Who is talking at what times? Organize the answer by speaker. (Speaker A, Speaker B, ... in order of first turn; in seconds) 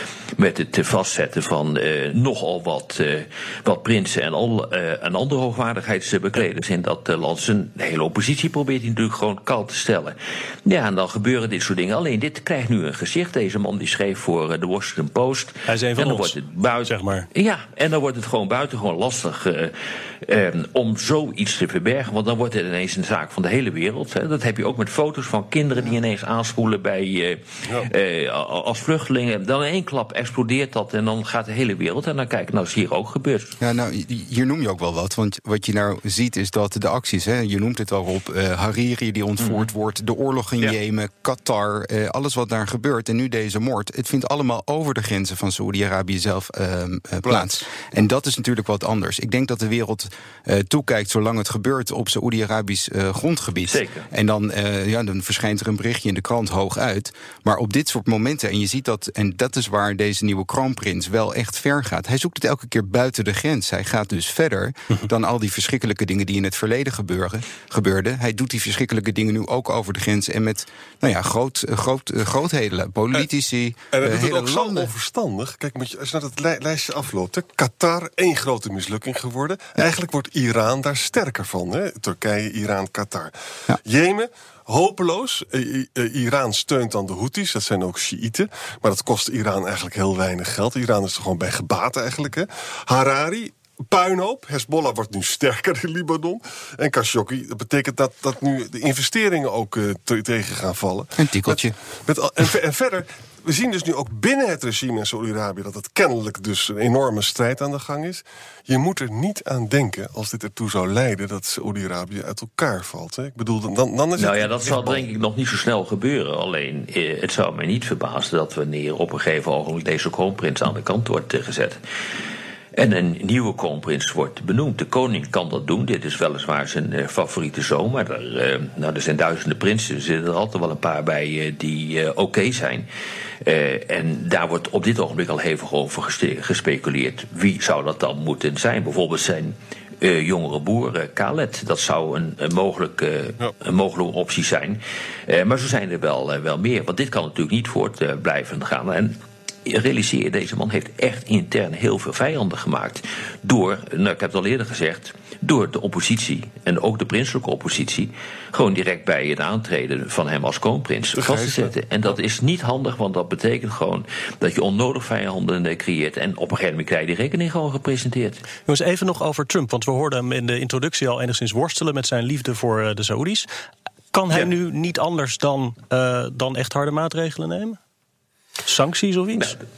Speaker A: 0.3-33.5, 39.4-39.7, 53.6-54.1, 114.2-121.8, 122.7-132.9, 133.4-168.4
Speaker B: 15.7-16.3, 16.9-17.3, 168.7-173.5, 174.1-177.8, 178.6-179.6
Speaker C: 33.6-74.9, 101.2-101.7
Speaker D: 73.9-83.3, 83.8-115.1, 161.1-161.7